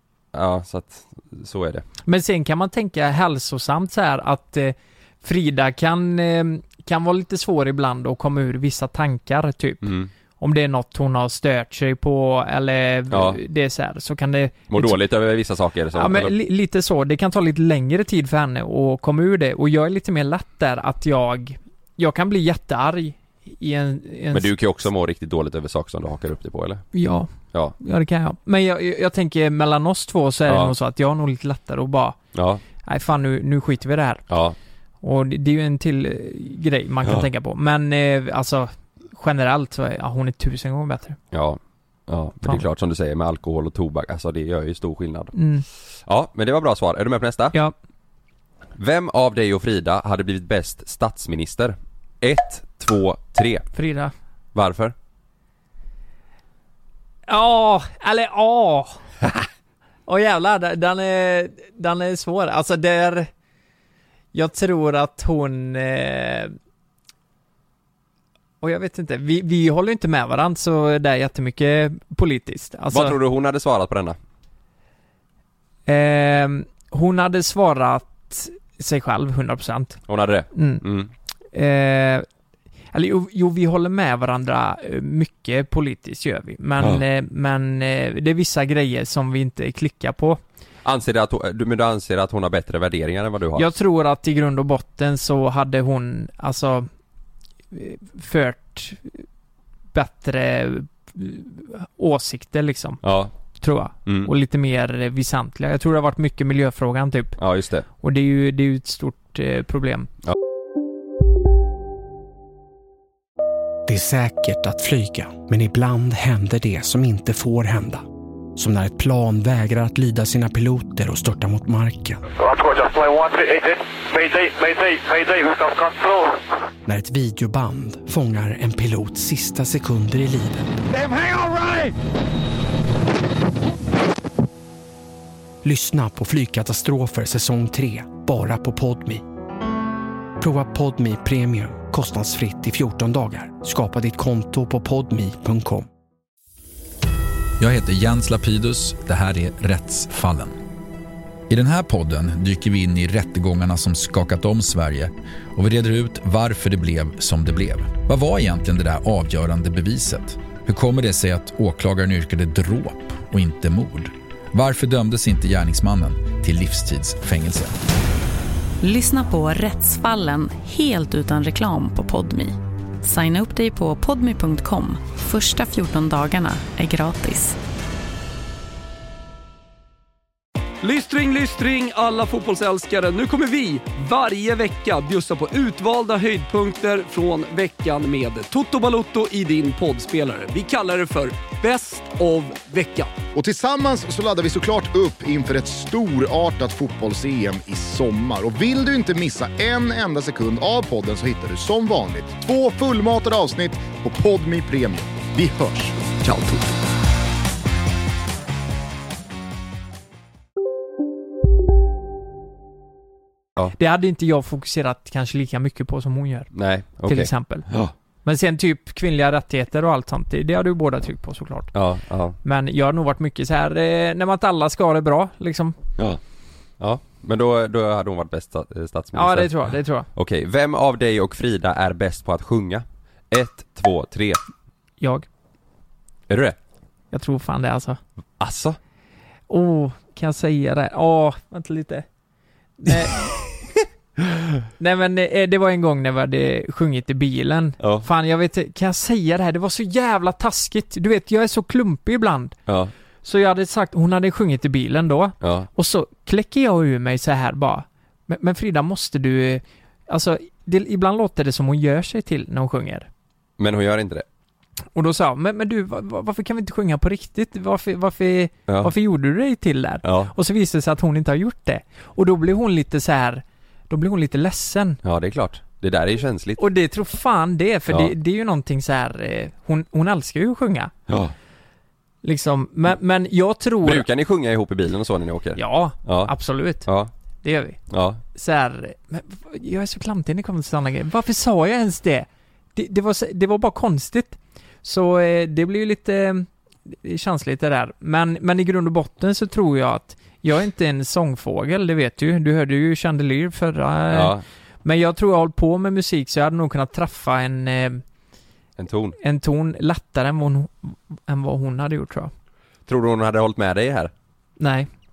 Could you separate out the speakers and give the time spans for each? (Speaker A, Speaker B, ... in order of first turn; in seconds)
Speaker A: 0.3-1.9, 9.8-10.1, 13.1-13.4, 14.7-16.3, 24.3-26.8, 30.5-30.7, 32.3-32.6, 34.3-34.6, 41.3-45.3, 46.0-47.5, 48.8-53.6, 54.5-54.9, 72.9-74.2, 80.1-81.1, 90.8-93.7, 103.0-103.3, 104.0-104.3, 107.4-107.8, 206.2-206.7, 216.5-217.9, 221.7-222.4, 226.8-234.4, 236.3-236.6, 238.4-238.8, 247.8-248.1, 252.7-252.9, 255.4-255.7, 263.6-264.2, 268.7-268.9, 270.0-270.3, 275.0-276.6, 277.9-278.1, 281.1-281.3, 283.8-286.3, 286.8-287.1, 287.9-288.2, 304.1-304.4, 308.8-309.2, 312.9-314.1
Speaker B: 2.0-15.0, 15.9-24.5, 26.9-32.2, 32.8-34.2, 35.0-41.2, 45.3-45.6, 53.7-54.1, 57.3-59.0, 60.1-63.3, 64.3-66.5, 68.6-73.2, 75.8-80.0, 80.5-80.8, 81.5-82.2, 82.9-90.4, 93.5-96.9, 97.7-99.2, 99.9-103.0, 103.6-107.4, 108.0-110.1, 213.8-216.5, 217.0-217.7, 218.2-221.7, 222.4-225.8, 229.1-230.1, 235.0-235.3, 237.1-238.0, 239.5-242.0, 242.8-243.3, 244.8-252.5, 253.2-263.1, 264.9-275.0, 276.6-280.9, 282.2-284.1, 285.6-286.9, 287.4-287.8, 288.3-308.0, 309.2-312.3, 314.6-314.9
Speaker C: 113.9-118.0, 118.5-122.2, 126.8-130.7, 135.6-139.2, 140.4-145.9
Speaker D: 122.3-126.4
Speaker E: 147.6-150.6, 151.5-167.7
Speaker F: 168.8-177.6
Speaker G: 180.8-193.1
Speaker H: 193.3-205.9